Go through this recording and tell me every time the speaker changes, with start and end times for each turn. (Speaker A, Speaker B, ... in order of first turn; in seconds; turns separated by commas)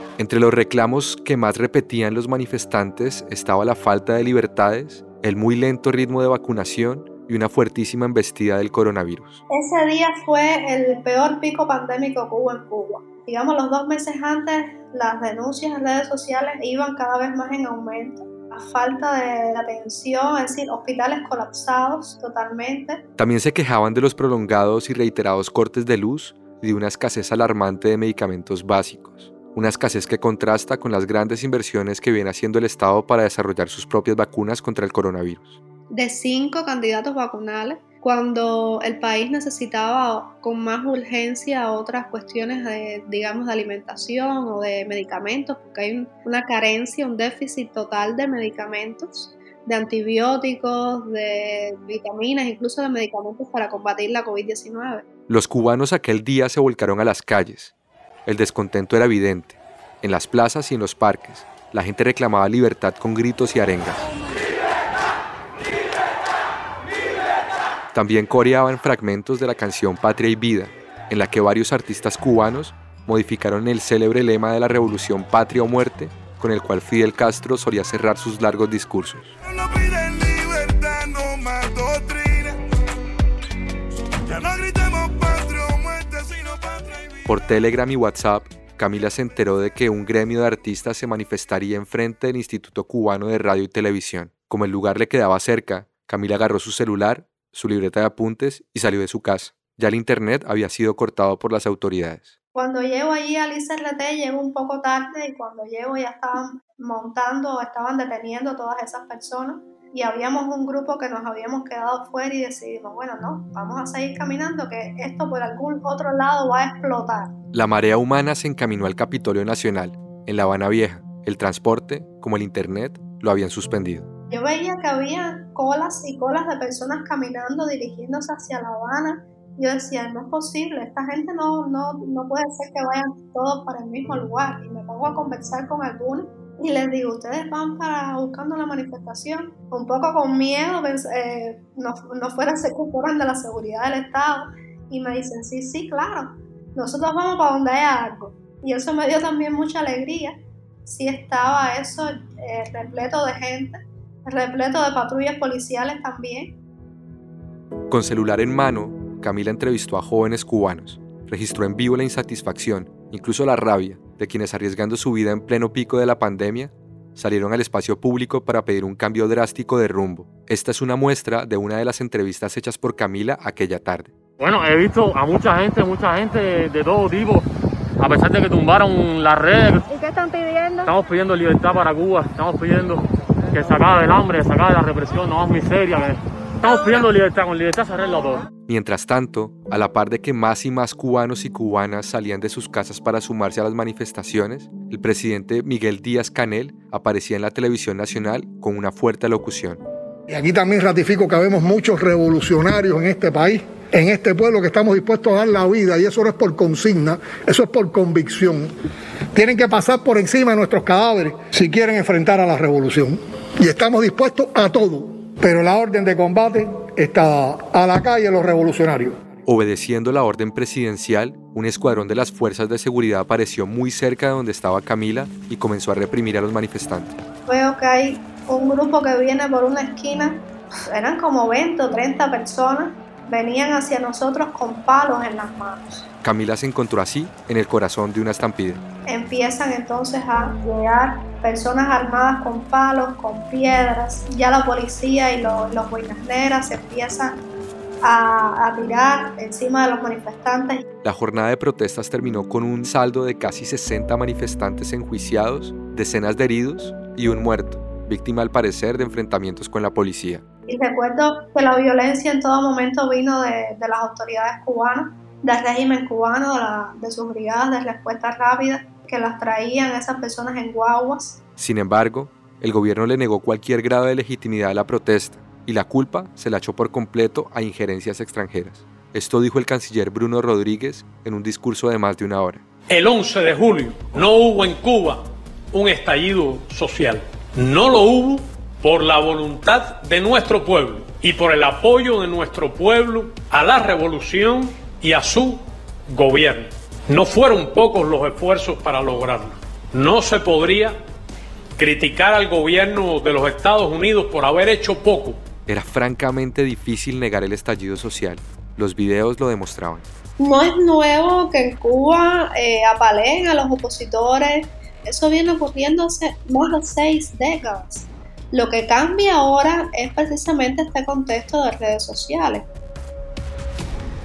Speaker A: 0.2-9.4, Speaker B: 9.5-23.0, Speaker A: 23.2-35.6, Speaker B: 35.9-55.0, Speaker A: 55.3-57.7, Speaker A: 58.3-64.0, Speaker A: 67.9-79.3, Speaker A: 87.2-102.3, Speaker B: 102.5-117.3, Speaker A: 117.5-124.1, Speaker B: 124.3-156.6, Speaker A: 157.9-174.1, Speaker C: 174.4-177.5, Speaker C: 178.0-180.0, Speaker C: 180.8-188.5, Speaker A: 188.7-199.8, Speaker D: 200.3-208.7, Speaker D: 209.3-219.3, Speaker A: 219.5-227.2, Speaker B: 227.5-236.1, Speaker A: 236.2-238.8, Speaker B: 239.1-247.4, Speaker B: 248.0-250.8, Speaker A: 251.0-260.4, Speaker B: 260.7-271.4, Speaker A: 271.6-282.6, Speaker E: 282.9-301.0, Speaker E: 301.8-305.4, Speaker A: 305.7-310.1, Speaker B: 310.4-322.7